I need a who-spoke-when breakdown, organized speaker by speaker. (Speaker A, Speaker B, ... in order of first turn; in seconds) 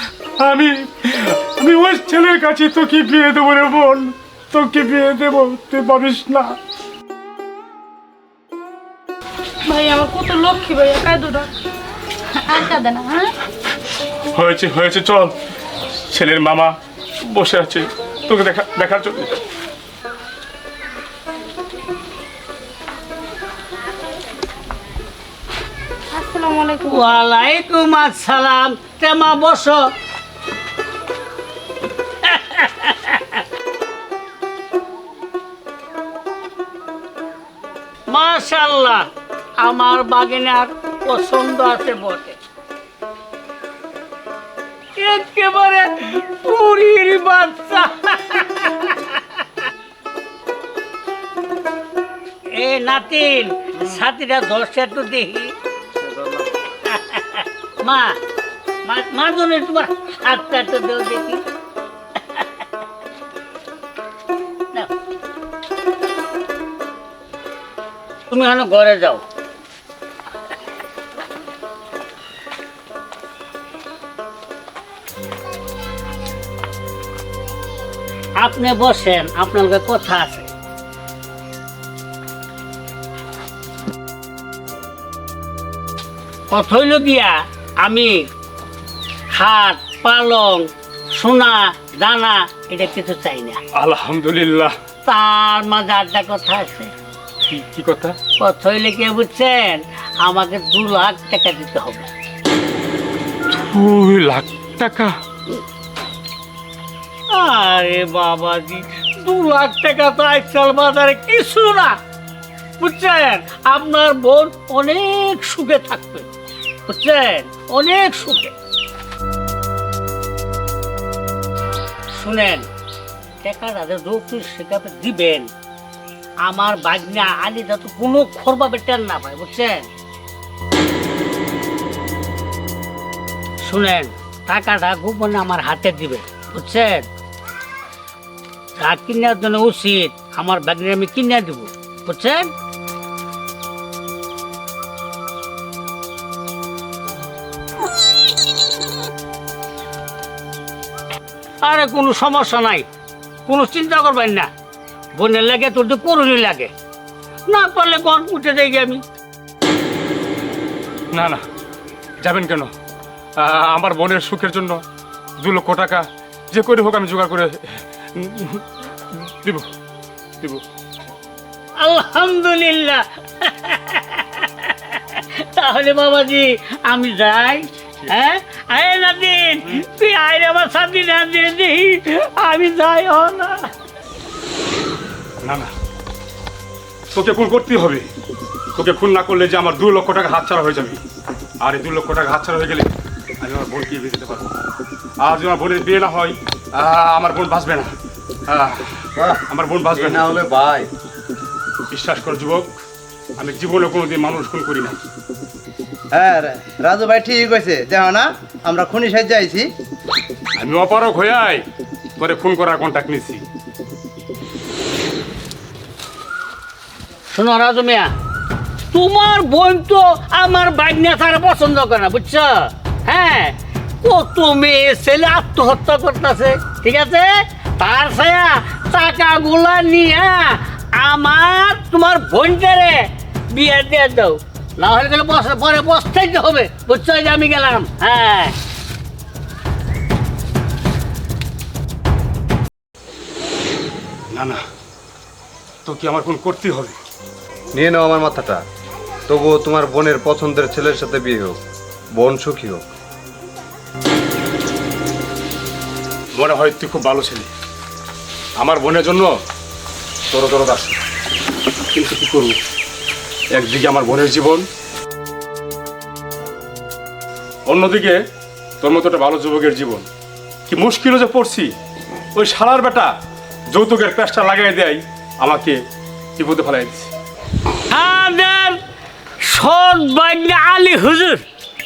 Speaker A: 0.4-6.6, 14.3-15.3, 16.1-19.4, 93.7-94.8, 97.5-98.2, 103.5-105.2, 161.1-161.4, 162.2-162.7, 163.4-164.8, 165.4-168.6, 169.2-169.7, 185.4-185.7, 187.1-188.1, 188.8-191.0, 191.6-194.5, 195.2-197.9, 198.5-200.3, 201.9-202.7, 203.4-205.0, 210.6-211.7, 212.2-213.4, 244.3-244.6, 245.8-247.0, 256.4-257.5, 258.6-259.3, 260.3-261.0, 261.9-262.6, 263.5-264.7, 267.7-268.2, 268.8-270.1, 270.7-271.7, 272.4-273.1, 273.7-275.8, 276.4-277.1
Speaker B: 9.7-11.5, 12.3-13.3, 26.1-27.2
Speaker C: 26.9-29.8, 32.2-33.4, 38.1-39.1, 39.6-42.4, 45.0-49.2, 52.5-55.5, 56.9-58.2, 58.9-61.4, 68.3-69.2, 78.4-80.5, 86.5-88.3, 89.3-93.6, 95.1-96.9, 98.4-102.1, 107.3-112.0, 112.8-116.3, 116.9-118.5, 122.2-122.7, 123.4-125.5, 126.5-129.9, 133.7-137.1, 138.8-142.5, 151.6-152.9, 153.5-154.5, 155.2-156.7, 157.5-159.0, 171.8-183.7, 217.3-218.1, 218.9-238.6, 277.9-278.8, 279.5-281.4
Speaker D: 56.0-56.5, 206.1-209.7
Speaker E: 199.2-199.4, 199.9-200.9, 247.8-248.6, 249.3-251.6, 252.2-252.9